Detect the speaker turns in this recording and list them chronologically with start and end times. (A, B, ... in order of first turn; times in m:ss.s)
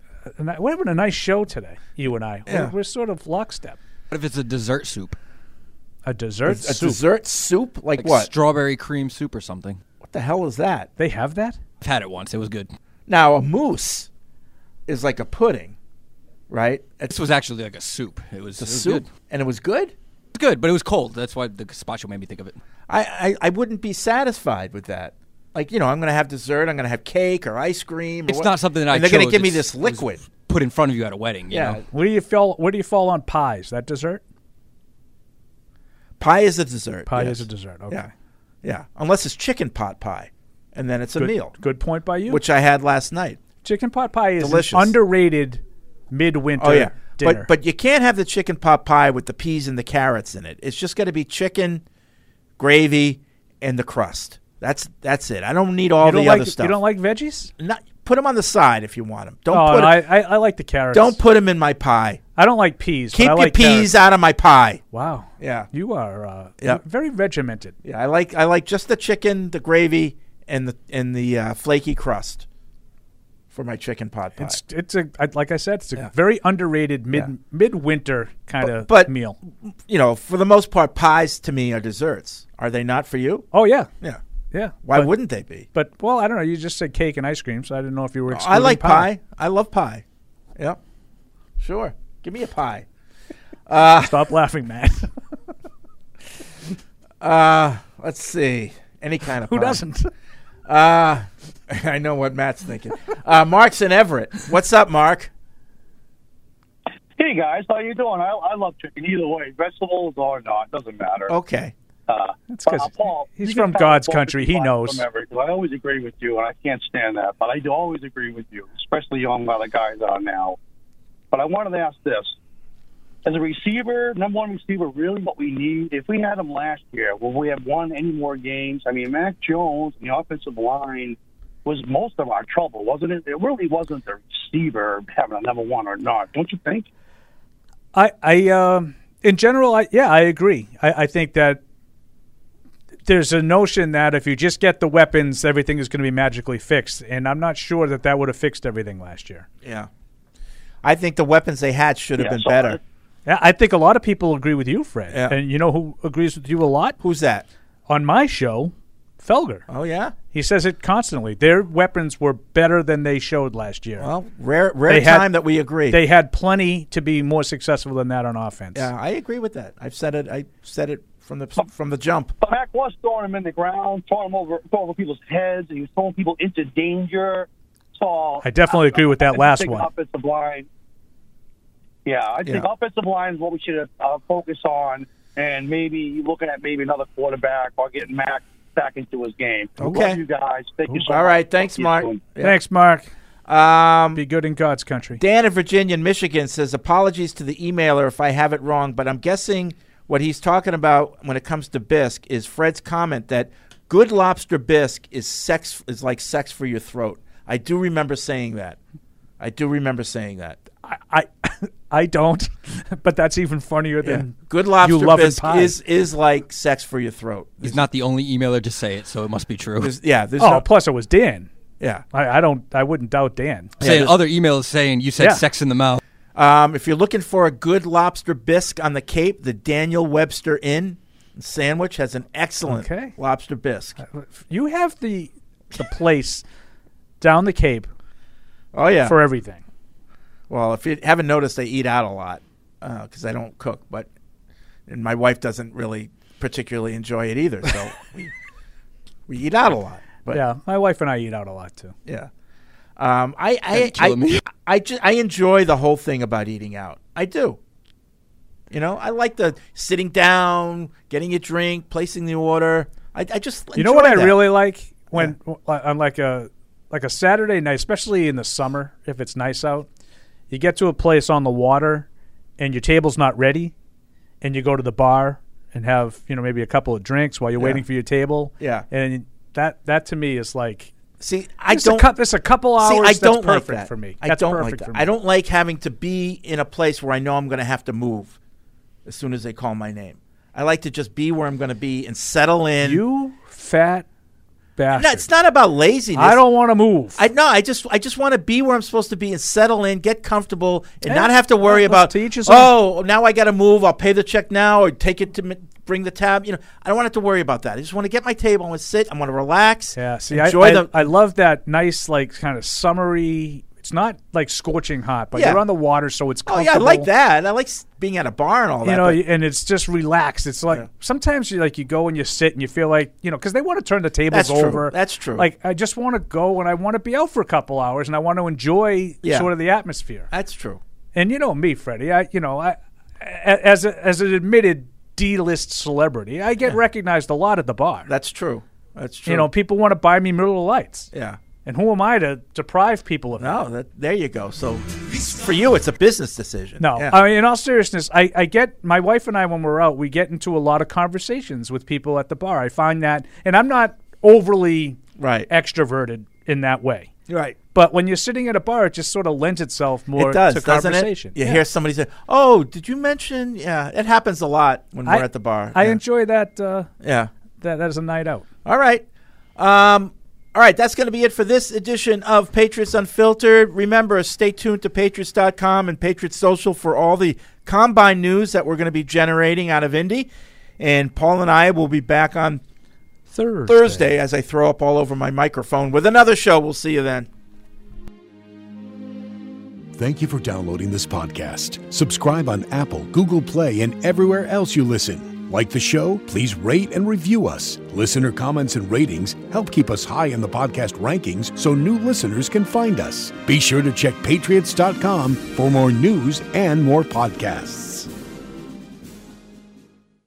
0:00.3-0:03.8 A
0:02.5-0:02.7 B
0:04.1-0:05.2 C
0:06.0-0:07.0 A
0:06.4-0:08.3 B
0:08.0-0:09.8 C
0:10.0-0:10.9 B
0:11.0-0:11.6 A
0:11.8-0:12.7 C
0:13.1-0:14.1 B
0:14.9-0:15.8 B
0:16.5-0:17.2 B
0:17.1-0:19.1 C
0:18.6-0:19.9 B
0:20.4-0:22.6 C
0:22.9-0:30.2 B
0:28.3-0:31.8 C
0:31.5-0:31.8 B
0:31.9-0:34.2 A
0:36.2-0:38.1 B
0:37.1-0:38.1 A
0:38.6-0:41.6 B
0:41.2-0:42.4 A
0:42.3-0:43.4 B
0:43.6-0:47.5 A
0:44.4-0:44.9 B
0:46.6-0:51.8 B
0:52.6-0:56.8 B
0:56.0-0:57.5 A
0:57.6-1:00.0 B
0:59.5-1:01.2 A
1:00.9-1:02.2 B
1:02.4-1:03.9 A
1:03.1-1:04.8 B
1:04.9-1:07.7 A
1:05.4-1:05.7 B
1:07.8-1:12.4 B
1:13.5-1:14.6 B
1:14.4-1:19.4 A
1:18.6-1:23.4 B
1:23.5-1:23.9 A
1:24.5-1:25.1 A
1:24.8-1:25.7 B
1:25.7-1:29.1 A
1:28.3-1:30.0 B
1:31.6-1:32.9 B
1:33.7-1:34.2 B
1:34.0-1:35.1 A
1:37.2-1:39.8 B
1:39.5-1:40.1 A
1:40.6-1:45.3 B
1:47.2-1:51.3 D
1:51.3-1:51.7 B
1:52.1-2:00.6 D
1:52.5-1:55.0 A
2:01.3-2:02.3 D
2:03.2-2:16.9 D
2:17.9-2:21.6 A
2:23.1-2:29.4 A
2:29.6-2:29.9 B
2:30.8-2:32.8 B
2:32.2-2:32.8 D
2:33.3-2:37.0 A
2:35.1-2:35.4 B
2:37.0-2:37.4 B
2:37.9-2:39.6 A
2:39.7-2:40.2 B
2:40.3-2:44.1 A
2:44.0-2:46.0 B
2:44.9-2:45.3 A
2:45.9-2:48.9 A
2:48.7-2:52.3 B
2:52.4-3:00.7 D
2:58.4-2:59.9 A
3:02.1-3:12.2 D
3:09.8-3:10.2 B
3:11.0-3:12.6 B
3:12.4-3:13.1 A
3:13.5-3:14.2 B
3:14.2-3:15.2 A
3:15.2-3:28.8 B
3:29.4-3:30.6 B
3:30.8-3:35.8 A
3:34.0-3:37.8 B
3:37.6-3:39.9 C
3:39.8-3:40.7 B
3:40.4-3:41.5 A
3:42.1-3:43.9 A
3:43.8-3:44.1 B
3:43.8-3:46.0 C
3:46.4-3:54.0 B
3:52.7-3:53.2 A
3:54.0-3:56.4 A
3:57.2-3:57.9 A
3:58.7-3:59.2 B
3:59.0-3:59.6 A
4:00.5-4:04.1 B
4:04.9-4:08.3 B
4:09.3-4:10.4 B
4:10.3-4:11.9 A
4:13.0-4:17.6 B
4:13.7-4:14.4 C
4:18.7-4:24.4 B
4:23.8-4:29.9 A
4:30.5-4:32.1 A
4:32.6-4:33.7 A
4:34.4-4:40.9 A
4:38.6-4:38.9 B
4:41.2-4:42.1 B
4:41.7-4:45.1 A
4:42.8-4:48.4 B
4:49.1-4:53.0 B
4:52.8-4:54.1 A
4:54.8-4:55.3 A
4:54.9-4:56.4 B
4:56.2-4:57.2 A
4:57.2-5:10.9 B
5:01.1-5:02.7 A
5:10.0-5:17.1 A
5:15.3-5:15.6 B
5:16.4-5:19.2 B
5:18.8-5:30.3 A
5:24.3-5:25.5 B
5:29.2-5:29.5 B
5:30.3-5:30.8 B
5:31.2-5:38.1 A
5:38.1-5:39.5 B
5:39.3-5:41.1 A
5:41.1-5:41.4 B
5:41.6-5:43.6 A
5:43.4-5:47.2 B
5:46.8-5:57.1 A
5:55.2-5:55.5 B
5:57.3-5:57.6 B
5:57.7-6:01.6 A
6:00.2-6:06.0 B
6:05.1-6:06.9 A
6:07.0-6:07.3 B
6:07.6-6:08.4 A
6:08.6-6:09.0 B
6:09.6-6:22.6 B
6:23.3-6:24.1 A
6:23.6-6:27.3 B
6:29.9-6:48.1 E